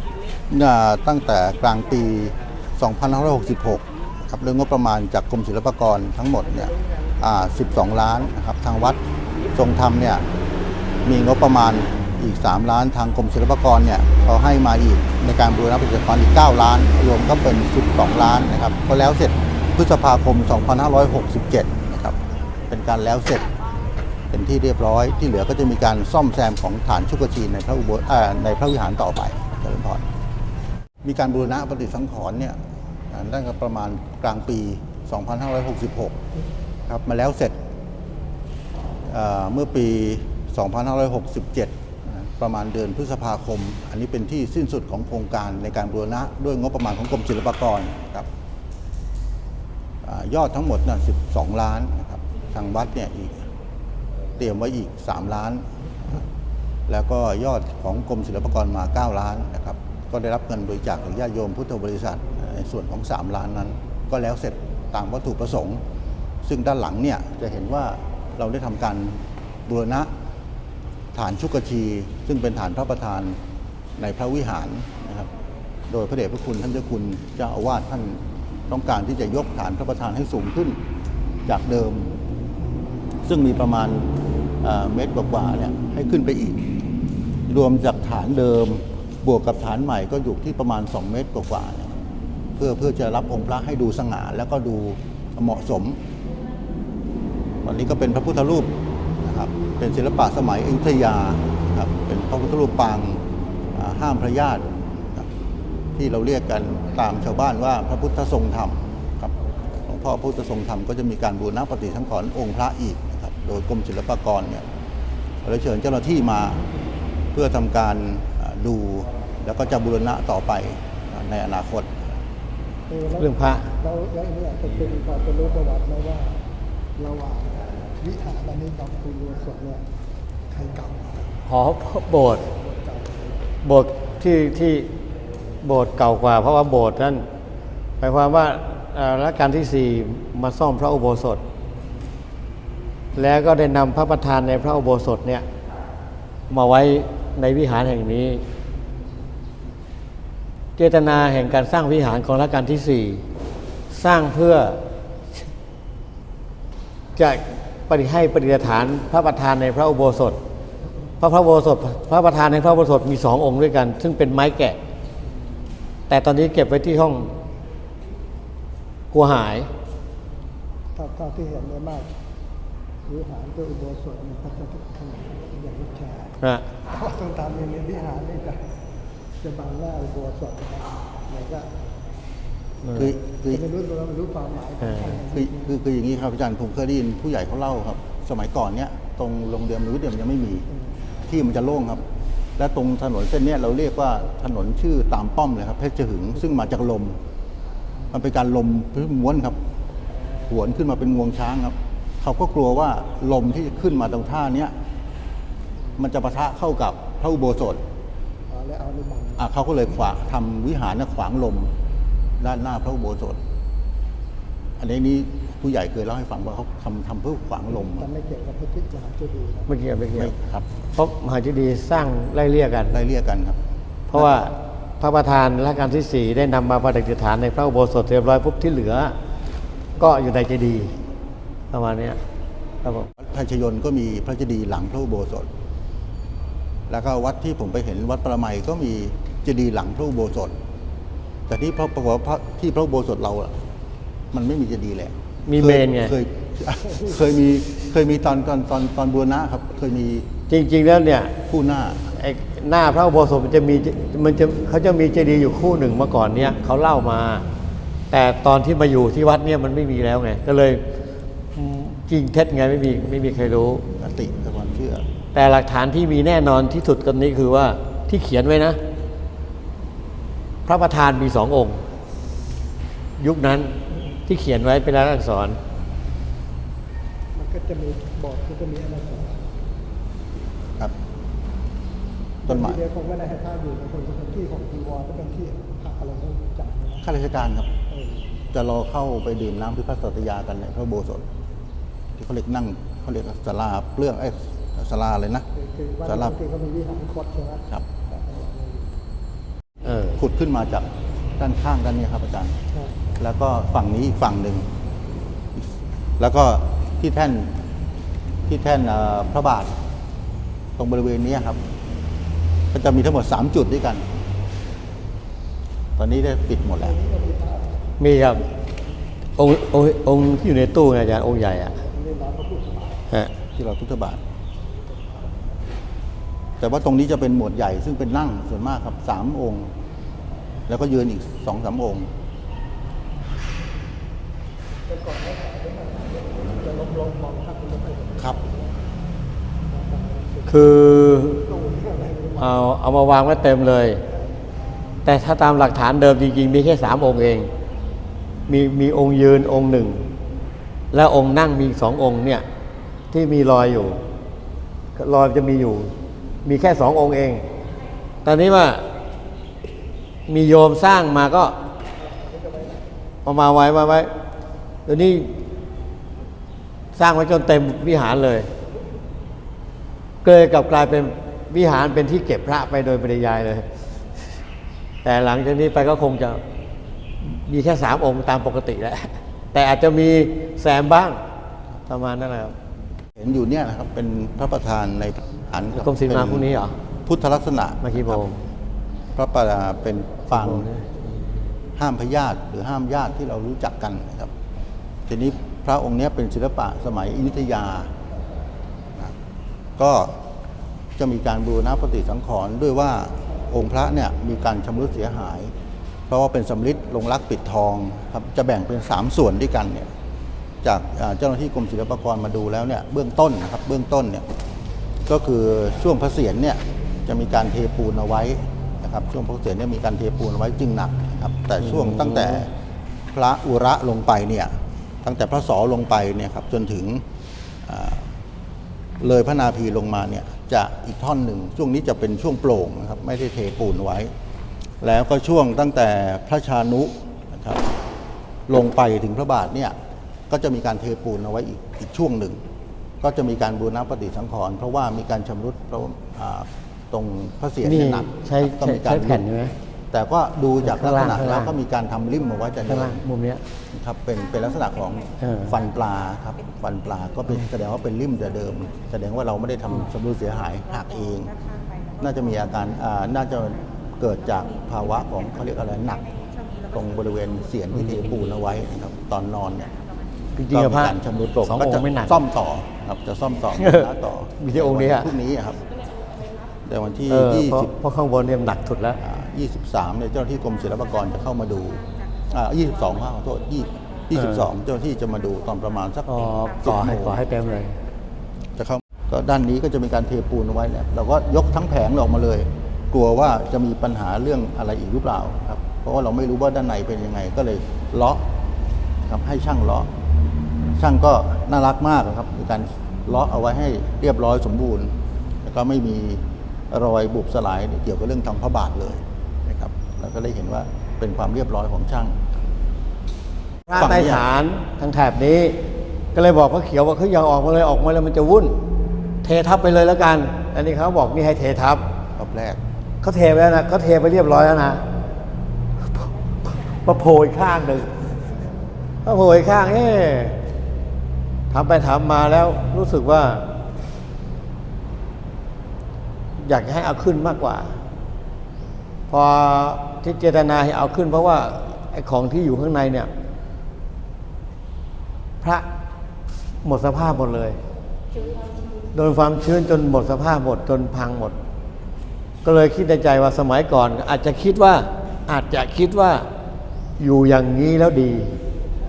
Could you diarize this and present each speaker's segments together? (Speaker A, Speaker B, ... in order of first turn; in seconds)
Speaker A: 0.5-9.0, 9.5-10.3, 11.1-22.2, 22.7-23.5, 24.3-30.0, 31.0-36.2, 36.9-37.6, 39.1-48.3, 50.0-53.5, 54.4-56.2, 56.9-65.8, 66.4-70.1, 71.1-73.4, 74.0-75.3, 75.9-80.8, 81.5-82.1, 83.2-84.1, 84.6-86.7, 87.5-92.0, 92.6-96.0, 97.6-105.3, 106.0-114.7, 115.4-116.7, 117.3-122.0, 182.9-183.7, 185.1-190.7, 191.2-192.0, 192.6-197.2, 198.1-199.6, 200.4-204.7, 206.0-207.8, 209.4-211.7, 212.4-213.4, 214.8-218.1, 220.1-220.7, 222.9-223.6, 224.1-224.5, 233.2-235.5, 236.9-240.5, 241.5-243.6, 244.3-250.3, 251.5-252.1, 264.0-265.1, 282.5-282.8, 287.0-287.7, 288.5-291.2, 292.2-295.5, 296.1-296.4, 300.1-302.6, 303.2-304.7, 306.2-307.6, 308.5-309.8, 310.8-311.6, 312.7-314.1, 316.0-317.0, 323.6-324.2, 326.6-329.7, 330.7-332.1, 383.2-386.5, 387.1-388.2, 389.1-390.7, 391.8-394.3, 395.1-397.9, 399.8-400.2, 401.0-405.5, 406.1-409.9, 410.6-414.2, 415.1-422.5, 423.1-424.5, 425.0-427.0, 427.6-428.1, 429.0-434.1, 434.8-437.7, 438.5-439.8, 440.3-442.4, 443.0-449.2, 449.9-453.0, 453.7-461.3, 462.0-466.0, 466.7-469.7, 470.5-475.6, 476.6-477.7, 479.0-487.2, 488.6-498.2, 499.1-499.9, 500.8-512.2, 513.7-514.2, 522.2-522.6
Speaker B: 122.9-126.4, 127.0-129.9, 130.5-131.4, 132.5-133.5, 170.9-172.1, 173.1-178.7, 179.4-181.7, 183.5-185.7, 208.5-209.4, 217.7-219.7, 277.3-279.5, 282.4-287.0, 287.9-288.2, 295.6-298.9, 316.8-317.7, 321.8-323.1, 324.7-325.6, 334.9-338.8, 339.7-342.6, 362.1-362.8
Speaker C: 123.2-123.7, 131.5-132.5, 133.6-134.9, 135.6-137.3, 138.0-141.4, 143.2-145.5, 146.5-148.4, 150.8-153.2, 153.9-154.8, 157.2-160.4, 161.2-164.8, 166.1-167.3, 169.1-169.7, 176.4-176.7, 182.8-183.2, 184.8-185.2, 219.7-220.3, 220.9-223.0, 224.1-229.2, 230.0-230.9, 231.7-232.2, 232.8-233.1, 245.5-246.1, 250.5-251.3, 252.1-257.5, 258.1-260.8, 261.5-263.9, 265.3-268.8, 270.7-271.8, 273.2-275.6, 299.9-300.2, 318.0-318.4, 319.4-321.8, 340.5-341.5, 342.4-344.0, 345.1-347.5, 348.5-350.1, 350.9-352.5, 353.1-354.0, 355.0-355.9, 356.4-357.4, 358.2-358.9, 360.3-361.6, 363.2-364.1, 364.9-365.3, 367.0-368.5, 370.2-373.7, 375.0-376.4, 377.2-381.2, 381.9-382.6, 385.8-386.8, 387.8-388.4, 390.3-391.0, 421.6-422.5, 447.6-449.5, 450.6-451.5, 452.7-453.4, 455.2-455.6, 467.7-468.0, 470.4-472.2, 473.6-473.9, 474.4-475.1, 477.1-479.0, 484.2-484.5, 486.1-487.8, 513.7-515.6, 516.1-518.6, 519.2-521.9, 523.0-524.8, 526.0-528.1, 529.0-530.4, 531.5-533.5, 536.4-537.8, 539.1-543.1, 545.4-545.7, 546.6-547.6, 548.9-551.4, 552.4-556.3, 557.0-558.4